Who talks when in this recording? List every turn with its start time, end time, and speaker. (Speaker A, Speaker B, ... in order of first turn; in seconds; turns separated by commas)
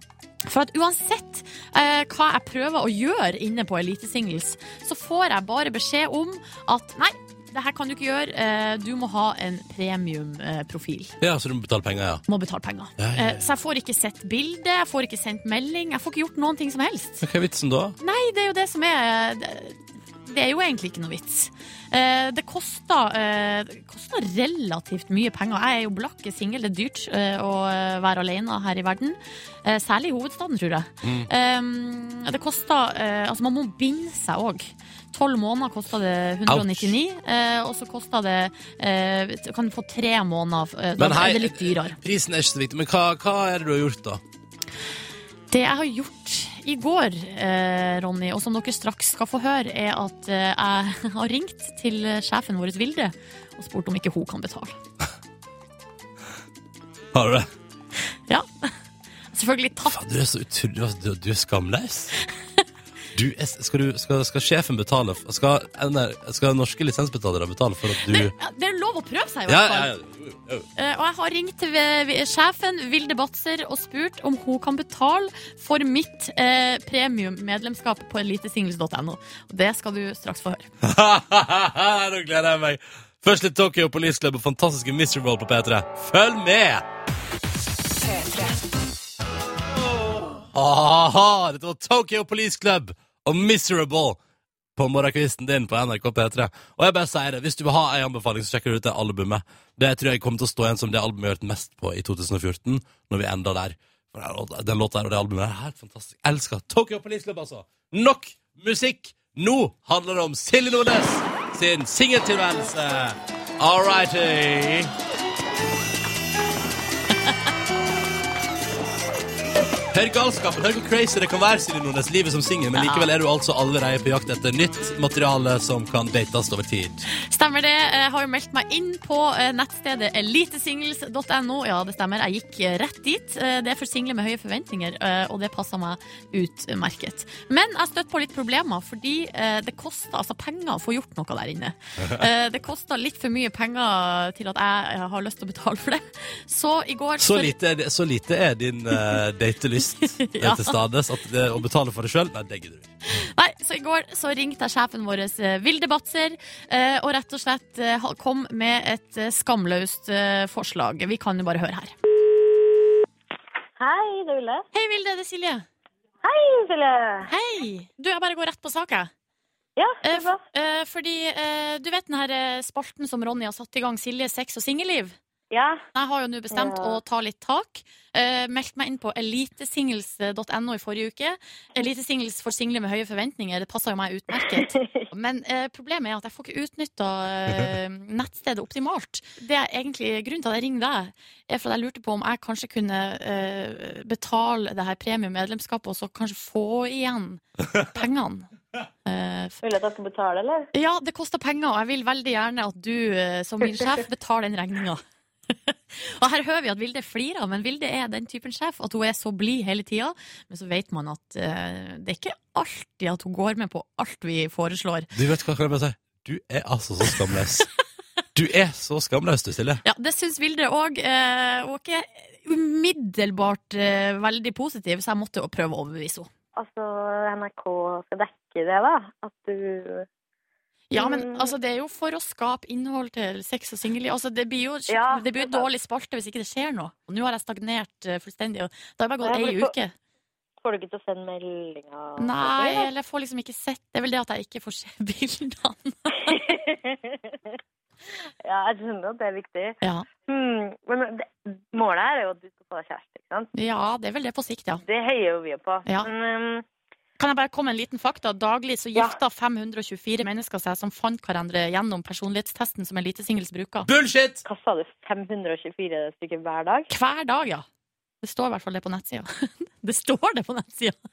Speaker A: 0.4-11.1, Speaker B: 11.2-12.2, Speaker A: 12.3-17.2, Speaker B: 13.0-13.4, Speaker B: 17.2-17.9, Speaker A: 18.0-42.0, Speaker B: 31.0-31.3, Speaker B: 36.5-36.9, Speaker B: 41.0-44.2, Speaker A: 45.5-54.8, Speaker B: 57.1-57.5, Speaker A: 58.3-58.7, Speaker A: 59.3-60.0, Speaker B: 59.9-62.1, Speaker B: 63.1-68.3, Speaker A: 68.0-69.9, Speaker B: 69.5-70.7, Speaker A: 70.8-80.7, Speaker B: 80.8-86.8, Speaker B: 89.9-94.2, Speaker B: 94.8-114.9, Speaker B: 119.9-127.0, Speaker A: 122.7-123.1, Speaker A: 127.1-147.5, Speaker B: 147.2-152.9, Speaker A: 150.0-150.8, Speaker A: 153.1-161.9, Speaker C: 163.8-164.6, Speaker A: 164.7-165.6, Speaker C: 166.2-167.3, Speaker A: 167.3-169.1, Speaker C: 169.8-170.4, Speaker A: 170.0-175.2, Speaker C: 175.5-175.8, Speaker A: 175.9-198.5, Speaker C: 176.5-177.0, Speaker C: 184.5-185.0, Speaker A: 199.0-199.6, Speaker C: 199.6-200.7, Speaker A: 200.7-205.0, Speaker A: 205.7-215.1, Speaker B: 215.1-217.7, Speaker B: 218.3-219.8, Speaker A: 219.8-226.3, Speaker C: 226.6-230.1, Speaker A: 230.9-239.9, Speaker C: 230.9-231.5, Speaker C: 234.9-235.7, Speaker C: 239.2-239.7, Speaker C: 240.6-242.9, Speaker A: 242.2-246.4, Speaker C: 246.2-247.3, Speaker C: 248.4-253.5, Speaker A: 249.8-250.1, Speaker A: 253.5-254.8, Speaker C: 254.8-256.6, Speaker A: 257.2-263.9, Speaker B: 263.8-264.4, Speaker C: 264.4-266.9, Speaker A: 266.9-267.6, Speaker A: 268.2-271.0